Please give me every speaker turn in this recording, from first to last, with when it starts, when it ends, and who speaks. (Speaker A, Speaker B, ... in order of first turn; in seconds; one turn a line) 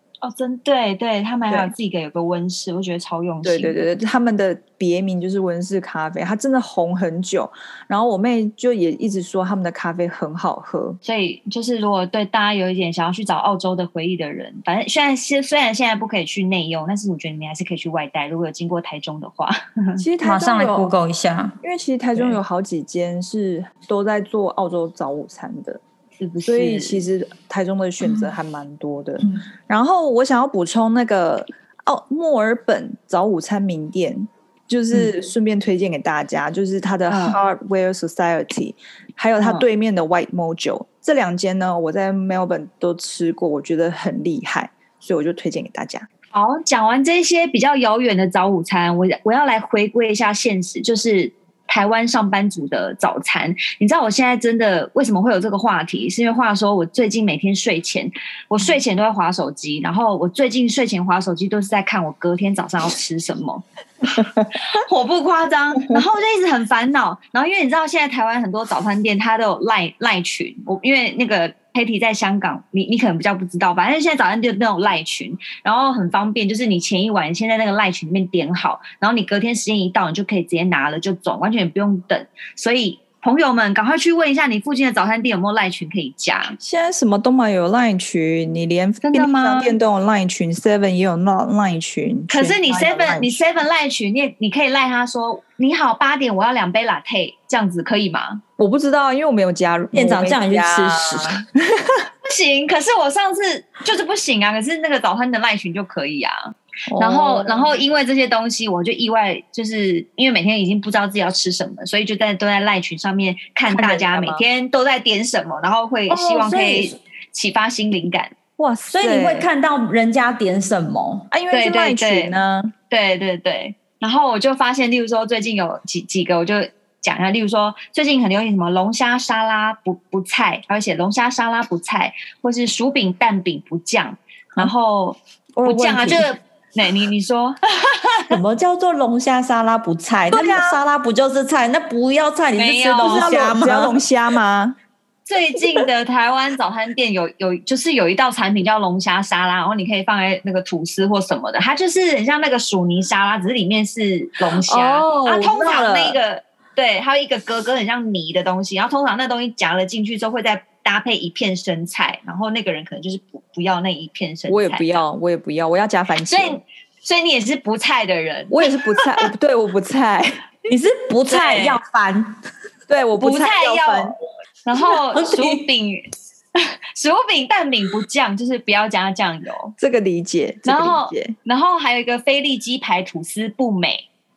Speaker A: 0.2-3.8
Speaker B: 3.4-11.0
Speaker A: 11.0-20.0
Speaker B: 20.0-20.9
Speaker C: 20.2-21.6
Speaker B: 21.6-25.8
Speaker A: 26.2-27.0
Speaker B: 26.4-46.1
Speaker A: 37.1-37.4
Speaker A: 39.4-39.6
Speaker A: 46.3-86.6
Speaker B: 86.6-93.4
Speaker A: 89.0-89.8
Speaker A: 92.3-98.4
Speaker B: 98.6-102.0
Speaker C: 99.9-101.4
Speaker A: 102.2-118.3
Speaker B: 106.9-107.8
Speaker B: 113.7-114.4
Speaker B: 116.1-116.9
Speaker B: 118.6-119.5
Speaker C: 118.9-121.3
Speaker B: 121.3-122.7
Speaker A: 121.5-122.4
Speaker A: 122.9-138.4
Speaker C: 135.6-136.3
Speaker C: 138.3-144.0
Speaker A: 140.3-140.7
Speaker A: 142.5-143.6
Speaker B: 143.0-144.8
Speaker A: 145.2-165.0
Speaker B: 154.7-155.9
Speaker C: 155.6-156.1
Speaker B: 164.5-166.6
Speaker A: 166.3-169.2
Speaker B: 168.5-170.4
Speaker C: 170.7-172.4
Speaker A: 171.3-171.8
Speaker B: 172.9-174.1
Speaker A: 173.2-174.1
Speaker A: 174.6-179.7
Speaker C: 174.9-175.6
Speaker B: 179.8-181.3
Speaker A: 180.7-184.1